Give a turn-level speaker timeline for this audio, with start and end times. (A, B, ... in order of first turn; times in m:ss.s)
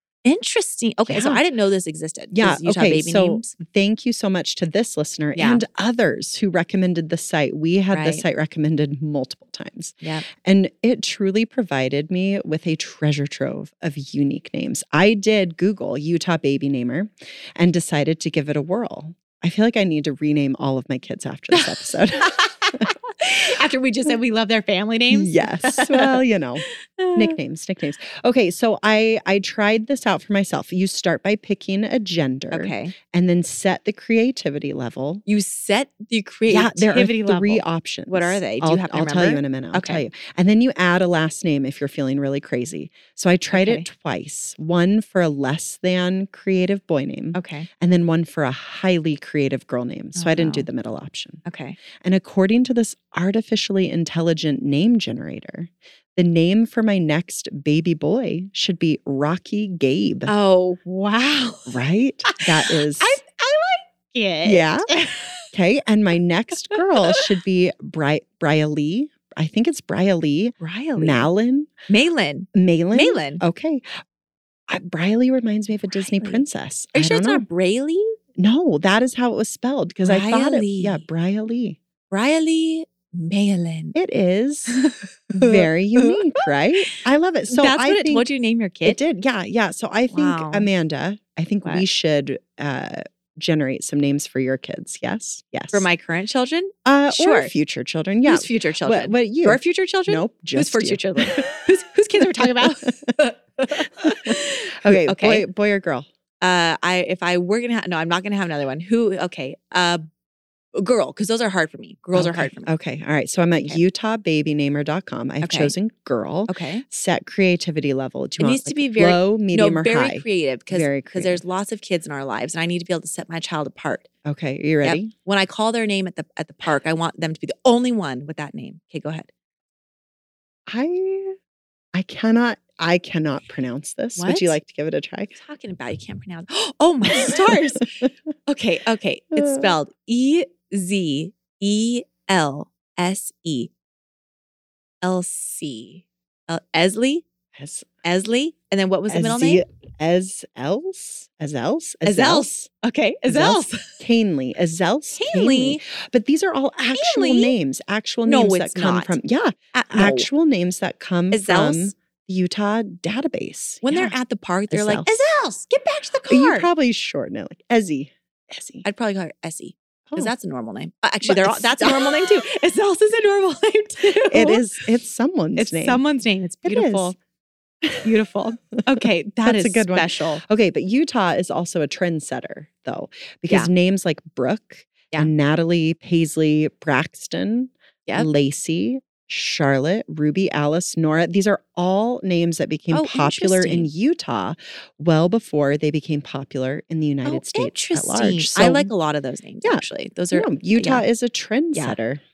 0:00.2-0:03.5 A
0:01.1-0:01.4 B
0:02.3-0:22.9 B
0:05.4-0:05.6 A
0:07.9-0:08.2 A
0:10.0-0:10.3 A
0:21.5-0:27.4 A
0:25.1-0:35.2 B
0:32.5-0:32.9 A
0:35.2-0:40.0 A
0:36.5-0:51.4 B
0:43.5-0:43.8 A
0:47.3-0:47.7 A
0:50.1-0:50.7 A
0:51.4-0:51.8 A
0:52.0-1:00.3 B
1:00.3-1:05.4 A
1:01.7-1:03.2 B
1:04.4-1:04.9 B
1:05.5-1:11.7 B
1:06.7-1:07.2 A
1:10.6-1:11.3 A
1:11.9-1:13.4 A
1:12.5-1:13.9 B
1:14.7-1:17.4 B
1:15.9-1:16.4 A
1:16.9-1:18.2 A
1:18.4-1:21.8 B
1:20.0-1:21.0 A
1:22.1-1:24.0 A
1:23.9-1:24.8 B
1:24.7-1:27.0 A
1:25.3-1:28.2 B
1:27.5-1:29.0 A
1:28.8-1:35.9 B
1:30.1-1:30.7 A
1:35.7-1:37.5 A
1:36.8-1:41.6 B
1:38.2-1:45.4 A
1:42.2-1:43.1 B
1:44.0-1:46.1 B
1:46.4-1:50.0 A
1:50.7-1:52.7 A
1:52.1-2:01.4 B
1:55.4-1:55.7 A
1:56.5-1:56.8 A
1:58.4-2:04.1 A
2:04.2-2:05.1 B
2:04.8-2:09.3 A
2:10.7-2:11.4 B
2:11.9-2:15.3 B
2:14.2-2:14.6 A
2:15.3-2:23.7 A
2:17.1-2:18.0 B
2:19.4-2:19.7 B
2:25.0-2:27.2 A
2:27.5-2:27.9 B
2:28.0-2:29.6 A
2:29.1-2:32.7 B
2:32.0-2:34.0 A
2:33.3-2:44.1 B
2:35.2-2:35.8 A
2:36.9-2:37.5 A
2:38.2-2:39.2 A
2:39.7-2:40.3 A
2:41.3-2:41.9 A
2:43.8-2:46.7 A
2:44.7-2:45.2 B
2:46.3-2:48.8 B
2:48.8-2:54.8 A
2:51.2-2:52.3 B
2:54.3-2:56.0 B
2:55.6-2:57.1 A
2:56.6-2:57.1 B
2:57.8-2:58.1 B
2:58.0-3:00.4 A
2:59.0-3:18.9 B
3:12.9-3:13.9 A
3:17.2-3:21.0 A
3:19.6-3:22.2 B